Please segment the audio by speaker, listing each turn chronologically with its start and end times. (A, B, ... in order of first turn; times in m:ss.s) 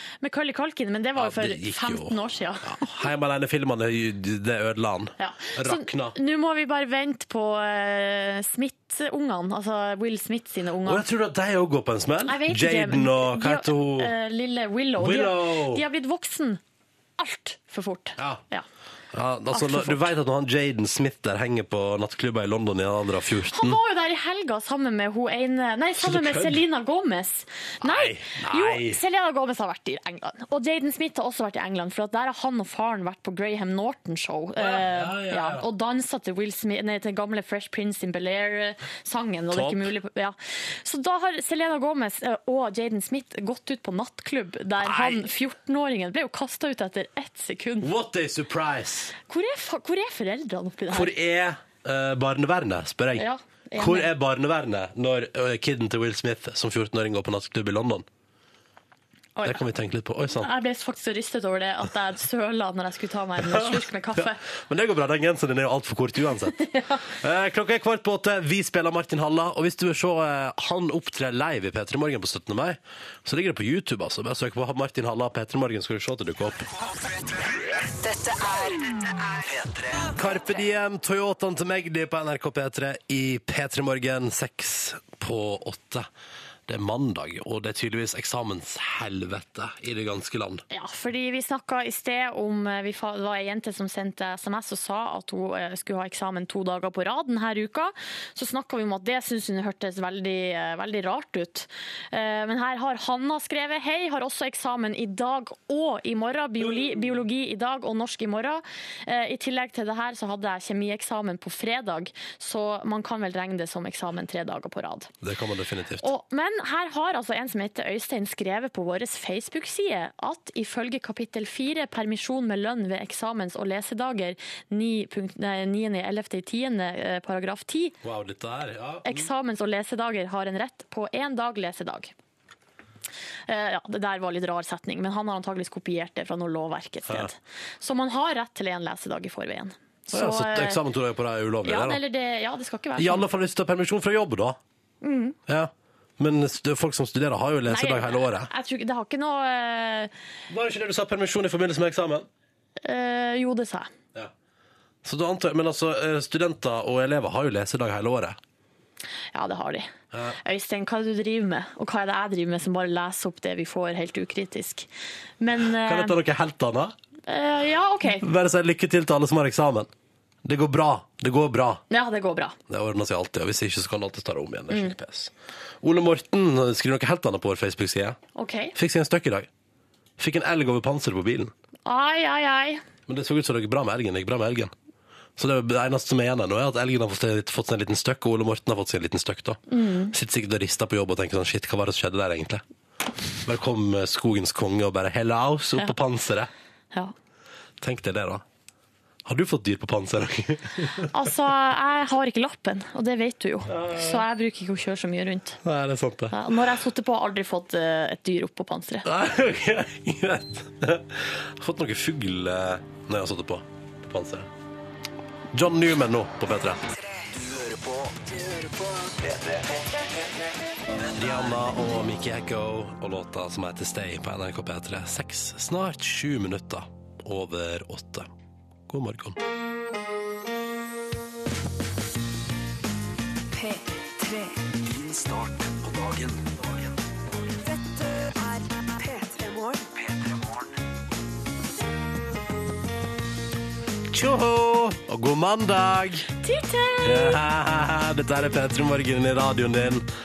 0:00.2-0:02.9 A
0:01.2-0:06.2 B
0:05.2-0:11.0 A
0:10.8-0:14.1 B
0:12.2-0:16.6 A
0:15.0-0:15.8 B
0:17.2-0:18.6 A
0:19.1-0:23.8 B
0:19.5-0:20.1 A
0:23.5-0:47.9 A
0:26.0-0:26.6 B
0:27.8-0:29.0 B
0:34.6-0:35.6 B
0:39.5-0:39.9 B
0:44.8-0:45.3 B
0:47.8-0:49.1 B
0:49.3-0:51.1 A
0:50.9-0:53.2 B
0:53.2-0:54.1 A
0:53.8-0:58.0 B
0:59.4-0:59.6 A
0:59.4-1:00.5 B
1:00.4-1:04.4 A
1:03.4-1:16.6 B
1:06.6-1:07.0 A
1:18.4-1:18.7 B
1:19.5-1:26.1 B
1:26.7-1:30.6 B
1:30.7-1:55.1 A
1:46.7-1:47.0 B
1:55.2-1:56.1 B
1:56.0-2:08.0 A
2:08.0-2:09.3 B
2:09.0-2:12.1 A
2:13.5-2:20.8 A
2:20.1-2:22.0 B
2:21.6-2:23.2 A
2:23.0-2:24.6 B
2:25.0-2:25.4 A
2:25.5-2:28.5 B
2:27.7-2:30.1 A
2:30.5-2:32.2 B
2:32.8-2:33.9 A
2:35.0-2:38.4 B
2:39.3-2:39.9 A
2:40.1-2:40.4 B
2:40.4-2:44.9 A
2:45.4-2:46.1 A
2:45.8-2:46.9 B
2:47.3-2:48.2 A
2:48.2-2:49.9 B
2:50.4-2:51.8 B
2:51.9-2:52.6 A
2:52.7-2:58.2 B
2:58.4-2:58.7 A
2:58.8-2:59.5 B
3:00.2-3:01.5 B
3:01.8-3:02.8 A
3:03.1-3:04.7 B
3:05.4-3:09.6 B
3:09.7-3:10.1 A
3:10.1-3:12.6 B
3:13.4-3:16.5 B
3:17.8-3:18.4 B
3:19.2-3:21.1 B
3:21.1-3:25.6 A
3:23.7-3:24.2 B
3:25.6-3:26.5 B
3:26.3-3:29.1 A
3:29.0-3:34.5 B
3:35.5-3:36.8 B
3:41.1-3:48.3 B
3:48.9-3:49.4 B
3:53.5-3:54.7 C
3:55.0-3:56.5 B
3:57.6-3:59.9 C
4:04.1-4:06.3 B
4:06.4-4:07.4 A
4:07.0-4:10.1 B